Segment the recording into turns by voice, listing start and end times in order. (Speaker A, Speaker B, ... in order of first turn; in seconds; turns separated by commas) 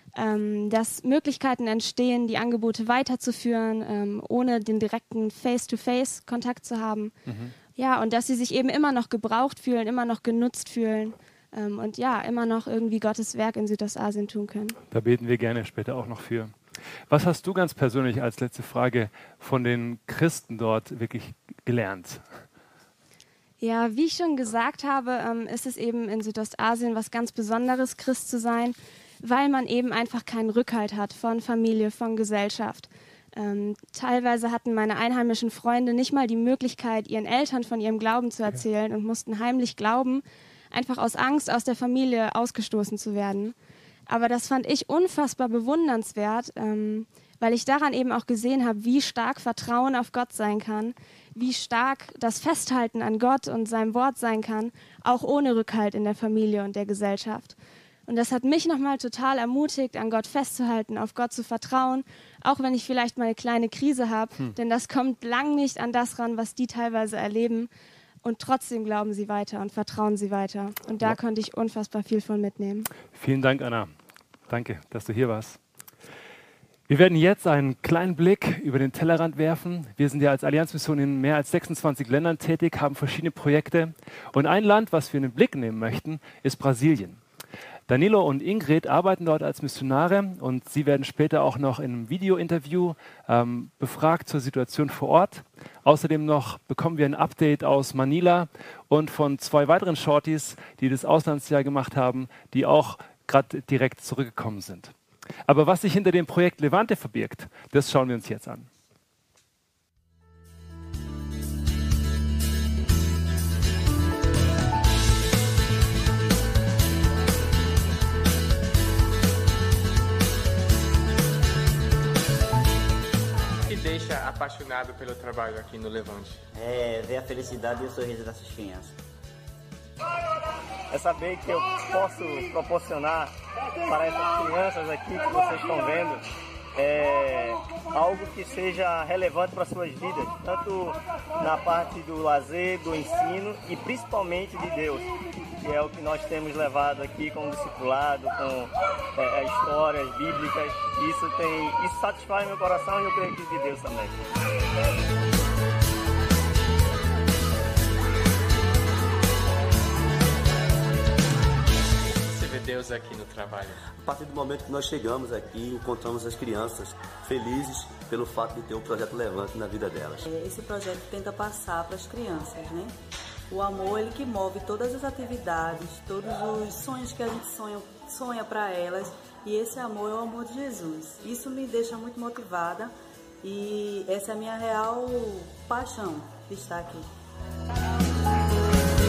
Speaker A: 0.1-7.2, Speaker B: 7.2-7.5, Speaker A: 7.8-14.8, Speaker B: 14.9-16.5, Speaker B: 17.1-22.2, Speaker A: 23.6-43.5, Speaker A: 44.1-67.7, Speaker A: 68.2-72.9, Speaker B: 73.1-73.9, Speaker B: 74.5-75.6, Speaker B: 76.9-87.2, Speaker B: 87.9-104.9, Speaker B: 105.5-108.7, Speaker C: 123.6-126.4, Speaker D: 126.5-128.9, Speaker E: 130.9-133.3, Speaker E: 133.8-136.2, Speaker E: 136.7-154.2, Speaker C: 162.1-163.8, Speaker F: 164.0-170.2, Speaker G: 170.2-172.9, Speaker G: 173.5-187.1